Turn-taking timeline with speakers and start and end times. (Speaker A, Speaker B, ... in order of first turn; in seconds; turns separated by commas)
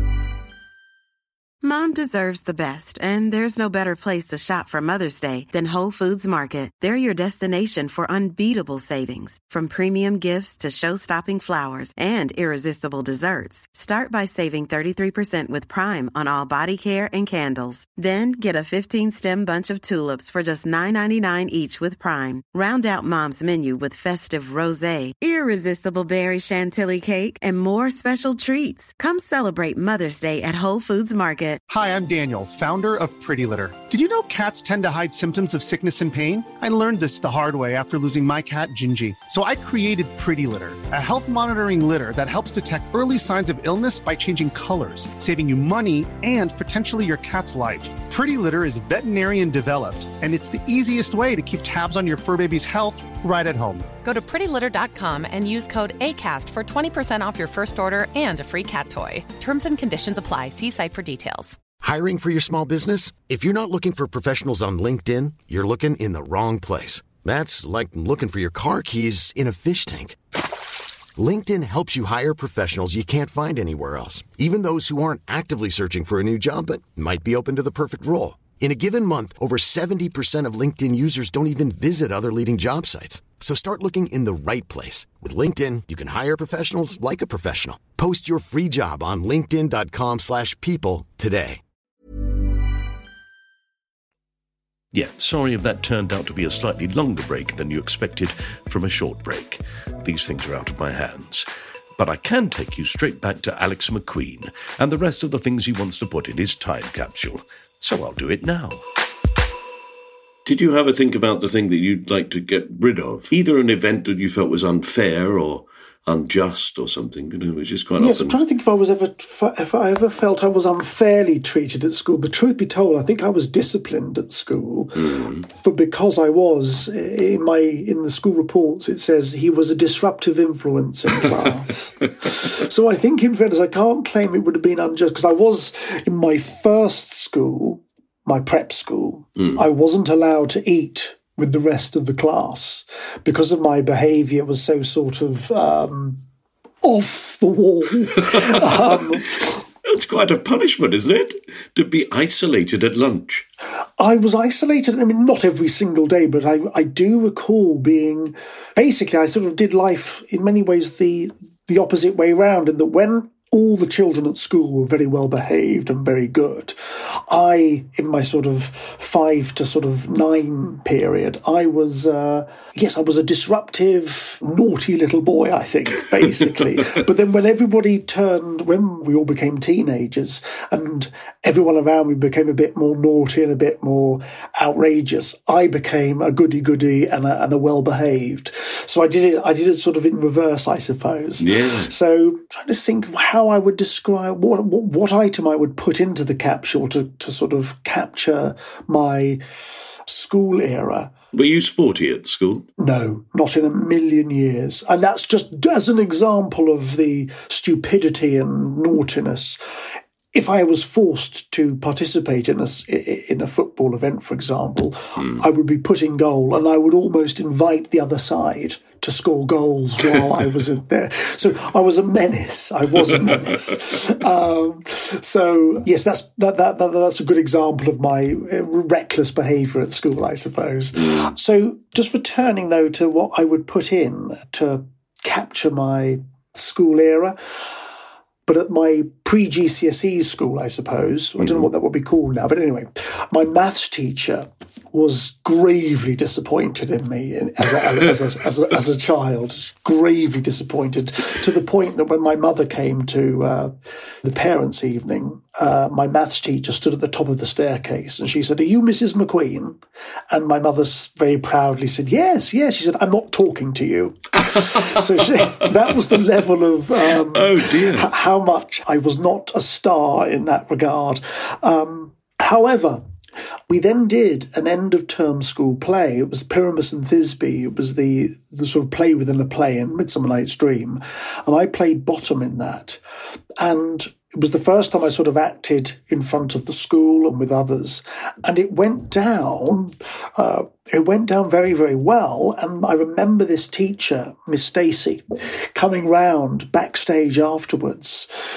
Speaker A: 1.6-31.6, Speaker B: 31.7-53.9, Speaker C: 54.0-61.6, Speaker D: 61.8-70.2, Speaker D: 71.2-91.6, Speaker E: 94.9-101.5, Speaker E: 102.0-108.8, Speaker E: 110.5-118.4, Speaker F: 118.0-146.2, Speaker E: 125.0-125.5, Speaker F: 146.8-149.5, Speaker E: 148.3-153.5, Speaker F: 154.0-199.4, Speaker E: 191.4-191.9, Speaker F: 200.1-201.1, Speaker E: 201.3-202.7, Speaker F: 202.8-209.6, Speaker F: 210.3-237.4, Speaker E: 231.0-231.3, Speaker F: 238.5-253.7, Speaker E: 241.4-241.7, Speaker F: 254.2-259.8, Speaker F: 260.3-273.0, Speaker E: 264.5-265.5, Speaker E: 267.1-268.1, Speaker F: 273.7-283.0, Speaker F: 283.6-295.2, Speaker F: 295.8-298.3